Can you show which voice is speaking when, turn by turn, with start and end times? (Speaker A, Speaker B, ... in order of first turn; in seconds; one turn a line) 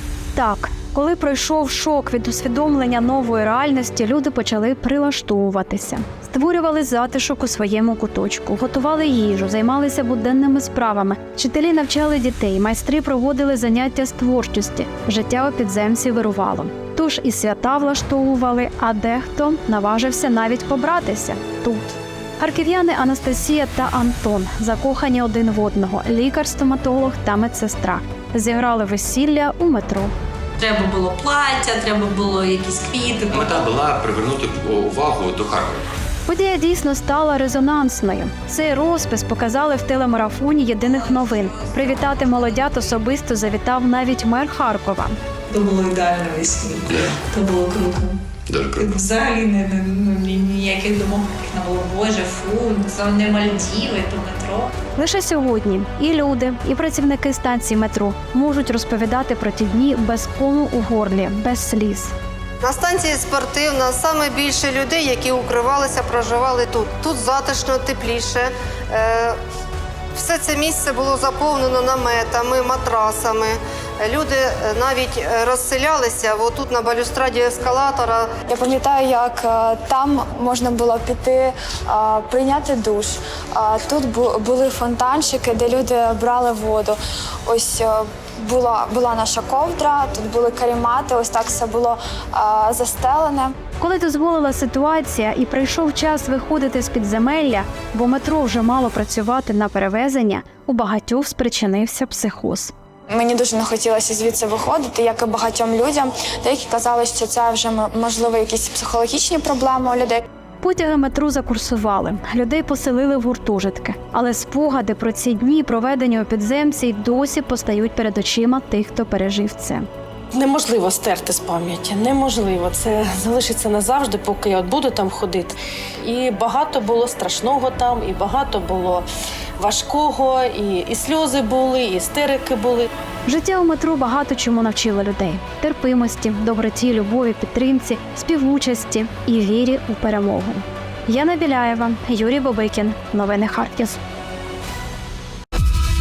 Speaker A: 0.3-30.1
Speaker B: 30.6-33.6
Speaker C: 33.3-35.8
Speaker A: 36.3-45.2
Speaker B: 45.5-48.2
Speaker C: 46.9-47.1
Speaker C: 48.5-48.9
Speaker B: 48.8-54.7
Speaker A: 55.0-62.1
Speaker D: 62.6-69.4
Speaker D: 70.1-78.4
Speaker E: 78.5-93.5
Speaker A: 93.8-102.7
Speaker E: 103.1-110.2
Speaker A: 110.6-119.9
Speaker F: 120.3-129.1
Speaker F: 129.6-132.9
Speaker A: 133.3-144.0